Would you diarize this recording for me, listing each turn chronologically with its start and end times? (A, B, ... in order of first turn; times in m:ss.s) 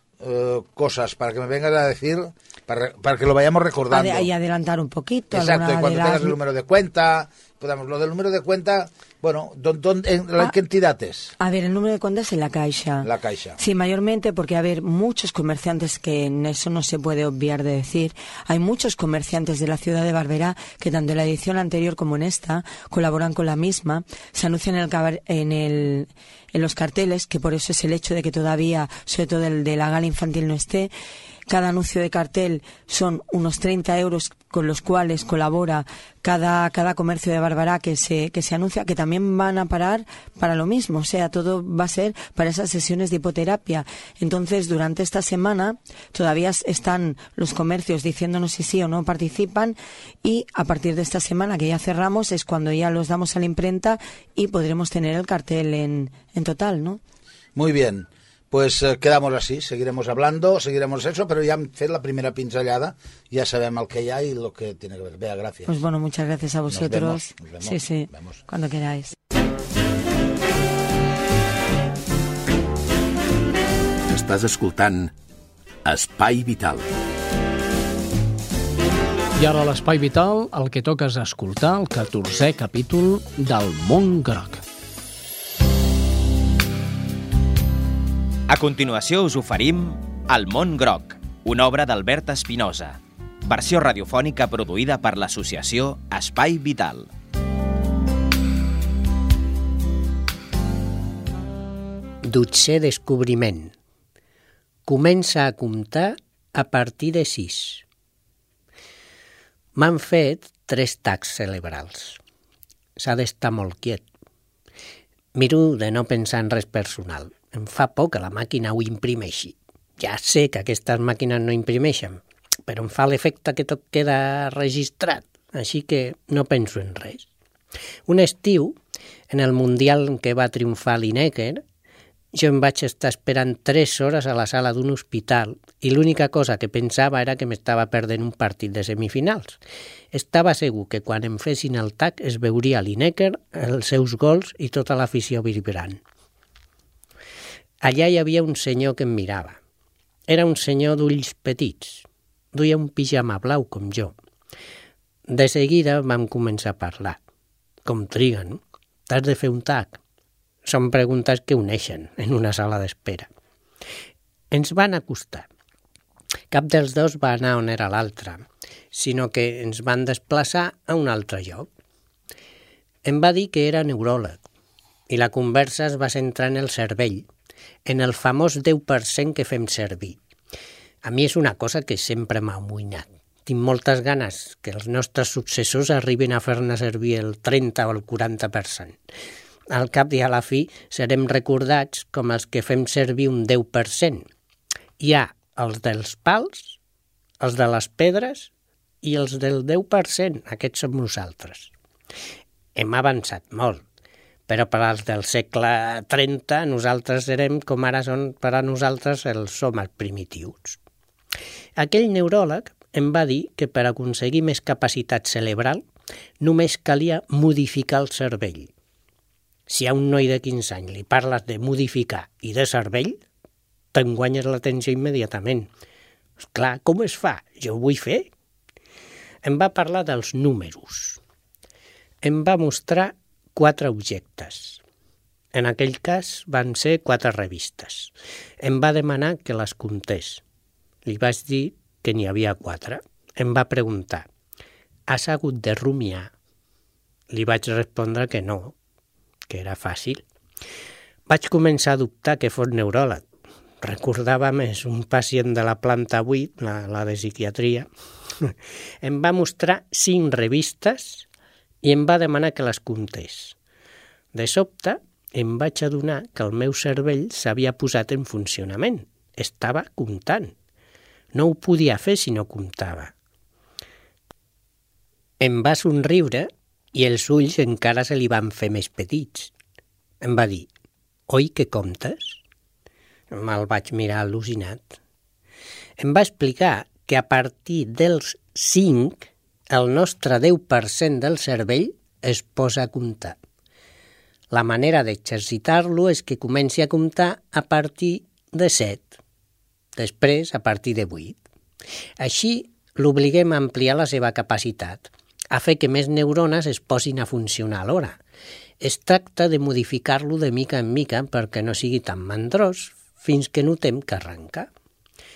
0:00.2-0:04.3 A
0:03.9-0:06.4 B
0:05.3-0:11.3 A
0:11.4-0:30.9 B
0:13.0-0:13.6 A
0:31.5-0:57.0 B
0:57.6-1:05.8 A
1:05.7-1:09.2 B
1:06.7-1:08.4 A
1:14.1-1:15.1 C
1:15.8-1:16.9 C
1:19.4-1:24.6 D
1:28.5-1:37.1 E
1:42.2-1:43.7 F
1:44.9-1:47.8 F
1:49.8-1:52.2 F
1:53.0-1:54.1 F
1:55.4-2:07.3 F
2:08.1-2:08.8 F
2:09.3-2:11.6 F
2:12.3-2:19.6 F
2:20.1-2:26.0 F
2:27.8-2:29.6 F
2:30.3-2:34.2 F
2:35.3-2:37.2 F
2:37.9-2:40.0 F
2:40.7-2:43.3 F
2:44.5-2:45.5 F
2:46.5-2:51.7 F
2:53.0-2:54.4 F
2:55.1-2:57.3 F
2:57.9-3:00.2 F
3:01.0-3:09.0 F
3:09.7-3:14.3 F
3:15.0-3:16.8 F
3:17.4-3:18.5 F
3:19.0-3:21.7 F
3:22.8-3:23.8 F
3:24.5-3:30.8 F
3:31.8-3:35.8 F
3:36.4-3:38.7 F
3:39.7-3:43.2 F
3:44.0-3:45.7 F
3:46.4-3:48.3 F
3:49.4-3:51.2 F
3:52.2-3:54.8 F
3:55.5-4:00.4 F
4:01.1-4:04.3 F
4:05.1-4:06.3 F
4:07.3-4:08.8 F
4:09.5-4:10.2 F
4:11.3-4:13.3 F
4:13.8-4:17.9 F
4:18.4-4:21.3 F
4:21.8-4:23.6 F
4:24.3-4:30.6 F
4:31.3-4:33.1 F
4:35.4-4:39.5 F
4:40.2-4:40.7 F
4:41.3-4:42.4 F
4:43.3-4:45.0 F
4:46.0-4:53.4 F
4:54.5-4:59.2 F
5:00.0-5:01.4 F
5:02.2-5:08.2 F
5:08.8-5:14.7 F